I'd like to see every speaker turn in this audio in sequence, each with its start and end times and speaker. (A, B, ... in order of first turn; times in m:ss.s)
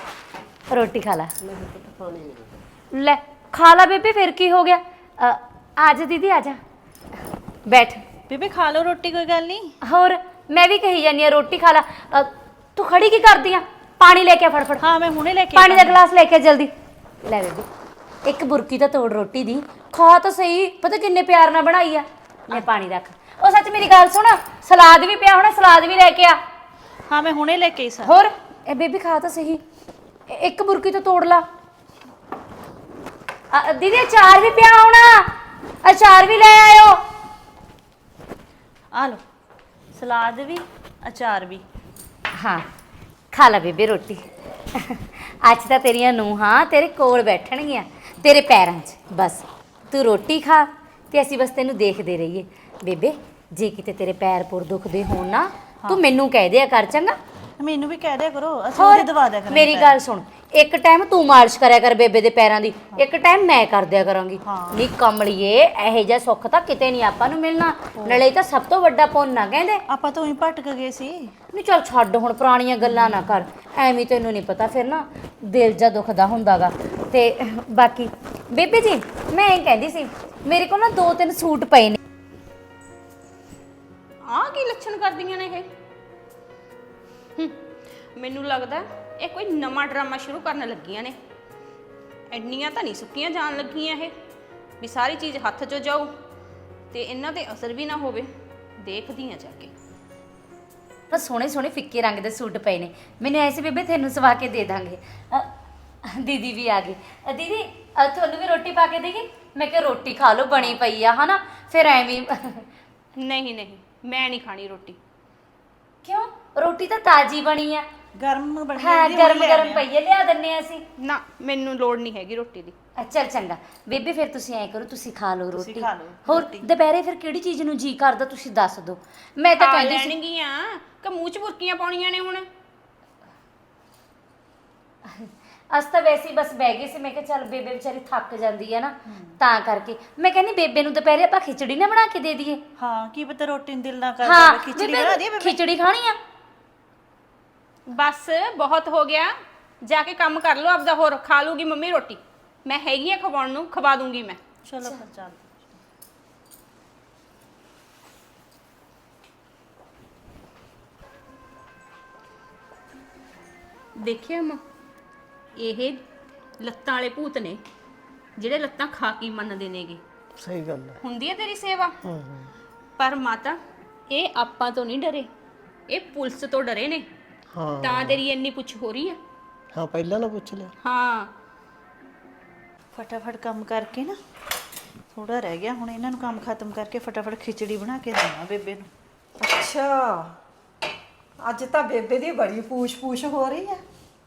0:00.7-0:01.3 A
0:01.4-0:02.3 B
0:02.9-0:06.6 A
0:07.7-0:08.0 A
0:08.3-0:09.7 C
0:09.8-0:14.8 A
0:14.8-0:16.0 C
0:15.5-0:16.7 A
0:17.2-0:17.7 A
0:18.2-0:26.4 A
0:27.1-0:28.2 C
0:28.0-0:29.6 A
0:30.3-0:31.4 A
0:33.5-0:35.3 A
0:35.8-0:37.0 A
0:38.9-0:39.2 C
0:39.9-0:41.6 C
0:42.4-0:42.6 A
0:43.3-0:44.2 A
0:44.8-0:57.2 A
0:57.6-1:00.0 C
0:58.8-1:09.8 A
1:04.4-1:04.9 C
1:08.0-1:08.3 C
1:09.9-1:11.3 C
1:11.5-1:22.0 A
1:24.3-1:25.7 D
1:28.2-1:31.2 D
1:32.3-1:34.1 D
1:34.8-1:36.1 D
1:36.9-1:38.3 D
1:38.8-1:39.7 D
1:41.1-1:45.5 A
1:46.2-1:52.6 A
1:53.2-1:55.0 D
1:56.0-1:57.8 A
1:58.2-1:59.8 C
1:58.8-2:00.8 A
2:01.0-2:02.7 D
2:03.0-2:10.2 A
2:05.6-2:06.7 C
2:09.6-2:12.5 D
2:15.2-2:22.6 A
2:22.8-2:25.6 C
2:24.2-2:26.2 A
2:27.9-2:29.3 D
2:29.9-2:34.4 D
2:34.6-2:35.4 C
2:44.0-2:44.6 D
2:45.6-2:46.0 D
2:46.6-2:47.6 D
2:48.4-2:50.0 D
2:50.4-2:51.0 B
2:51.0-2:52.0 D
2:52.0-2:52.5 B
2:53.0-2:53.6 D
2:54.1-2:55.3 D
2:55.9-2:57.1 D
2:57.5-2:58.2 B
2:57.8-2:59.2 D
2:59.7-3:00.7 B
3:00.8-3:01.3 D
3:03.0-3:04.2 C
3:05.1-3:08.9 C
3:09.4-3:10.3 E
3:11.4-3:13.8 E